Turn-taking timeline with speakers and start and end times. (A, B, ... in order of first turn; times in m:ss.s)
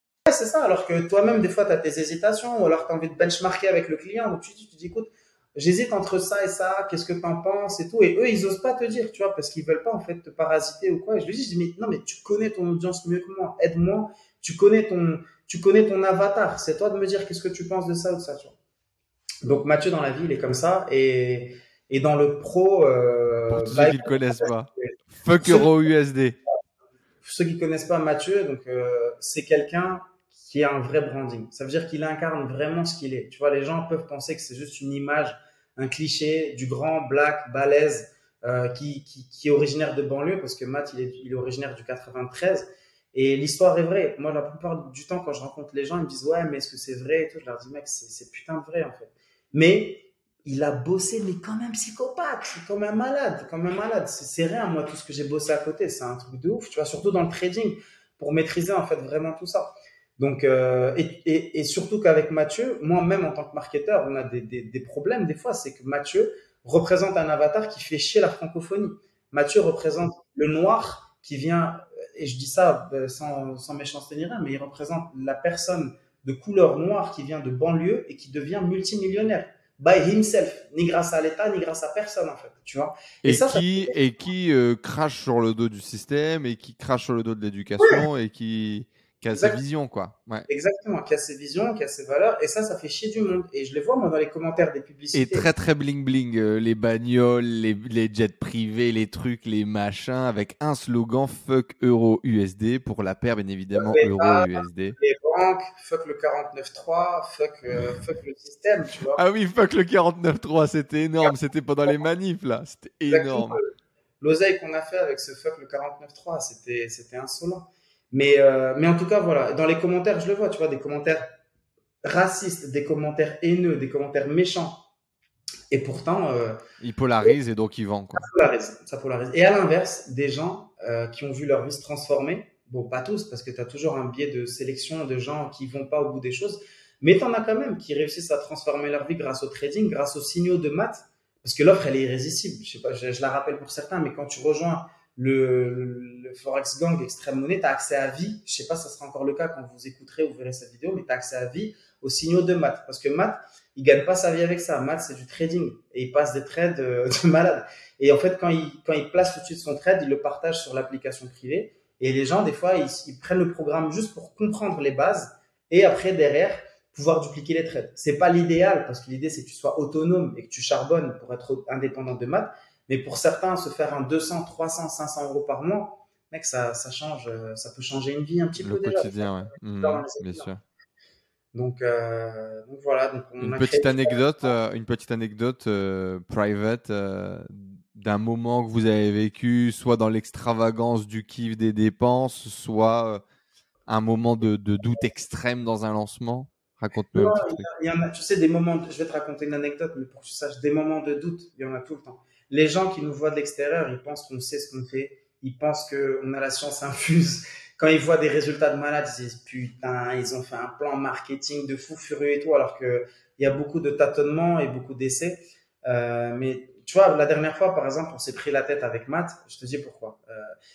0:00.3-0:18.6 A
0:19.4-0:25.7 A
0:23.5-0:26.4 B
0:27.2-1:24.0 A
1:23.2-1:30.5 B
1:27.8-1:28.0 A
1:29.3-1:29.6 A
1:30.5-1:35.5 A
1:35.1-1:45.0 B
1:43.8-1:49.2 A
1:49.1-1:53.6 B
1:53.1-2:01.4 A
2:02.0-2:04.9 A
2:05.7-2:06.6 A
2:06.8-2:08.3 B
2:08.2-3:00.5 A
2:58.6-3:00.6 B
3:01.5-3:04.5 A
3:03.4-3:13.2 B
3:13.9-3:17.7 B
3:17.1-3:40.5 A